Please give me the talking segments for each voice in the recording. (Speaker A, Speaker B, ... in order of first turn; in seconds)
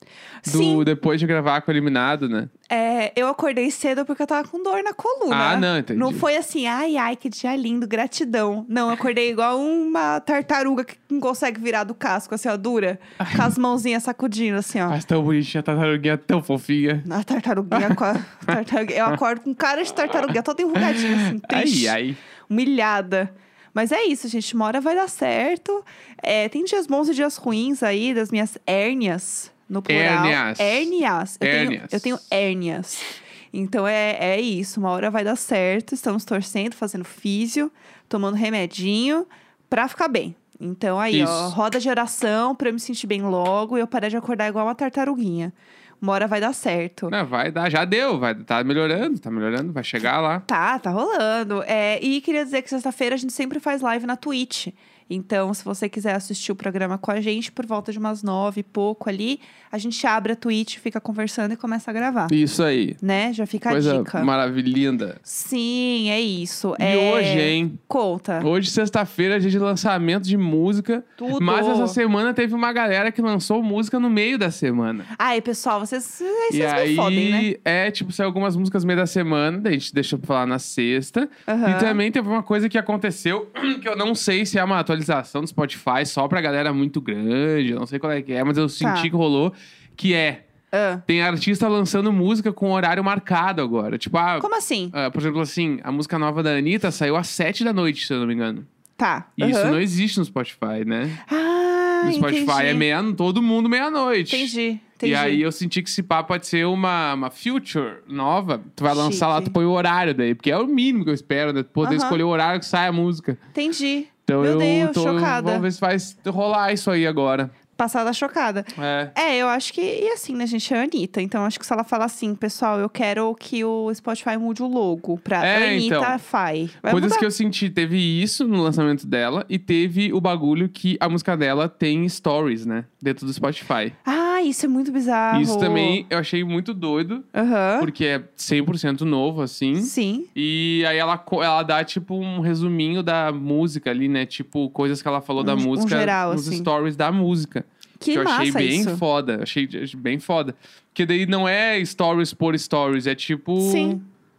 Speaker A: 0.4-0.9, 2.7-15.0, 17.0-22.0, 22.5-47.1, 50.5-62.3, 63.0-64.3, 65.2-68.5, 71.2-72.0, 75.2-77.5, 81.5-82.0, 88.8-89.1, 90.7-91.0, 94.4-94.9, 99.0-99.8, 101.3-102.8, 104.3-105.4, 108.9-109.5, 111.8-112.2, 113.5-115.6, 117.8-127.3, 134.0-136.0, 137.3-137.9, 139.8-140.3, 145.4-146.7, 148.0-149.0, 153.6-154.0
Speaker B: 0.5-2.5, 5.3-6.2, 13.2-13.5, 14.9-17.1, 17.7-18.6, 20.2-22.2, 29.9-30.9, 31.4-32.2, 41.1-41.5, 47.1-50.4, 62.3-63.0, 63.7-65.2, 66.8-67.8, 68.4-75.1, 76.5-90.4, 91.1-98.7, 99.4-101.2, 102.0-104.5, 105.0-113.4, 114.3-117.5, 118.8-119.1, 125.4-126.2, 126.8-133.9, 135.3-137.2, 137.8-154.0